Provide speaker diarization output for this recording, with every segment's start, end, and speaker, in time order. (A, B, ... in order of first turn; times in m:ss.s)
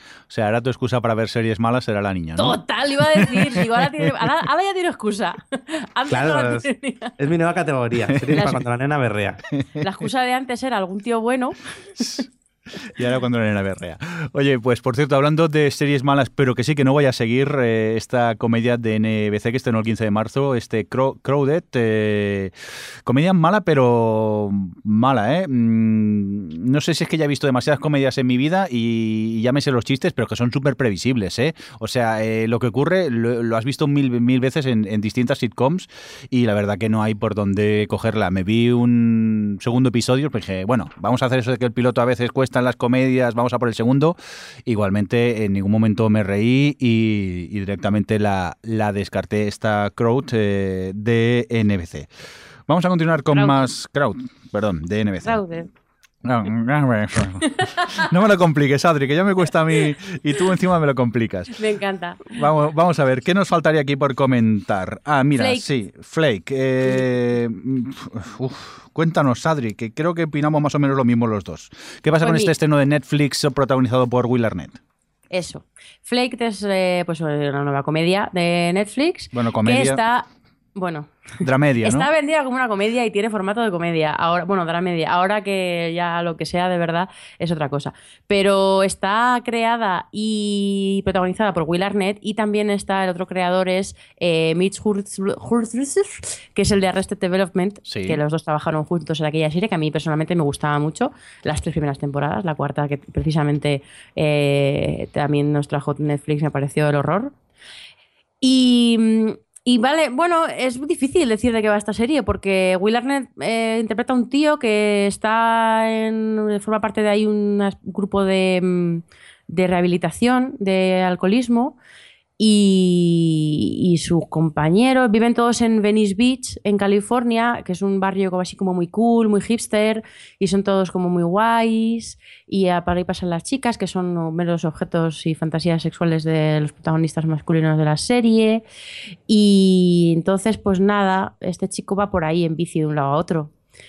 0:00.3-0:04.1 A
0:02.4-0:07.1 B
0:06.1-0:09.4 C
0:08.3-0:08.6 B
0:09.8-0:11.6 B
0:12.0-0:12.3 A
0:12.9-0:22.5 A
0:23.1-0:52.1 A
0:52.7-0:55.4 A
0:53.3-0:53.7 B
0:55.2-0:55.7 B
0:56.2-1:01.6 A
0:57.6-0:58.1 B
1:01.6-1:02.4 B
1:02.3-1:14.8 A
1:05.4-1:05.6 B
1:12.2-1:12.5 B
1:15.3-1:47.3 B
1:19.3-1:20.0 A
1:21.4-1:22.1 A
1:37.9-1:38.2 A
1:48.4-2:01.8 B
2:02.4-2:18.6 B
2:19.3-2:23.5 B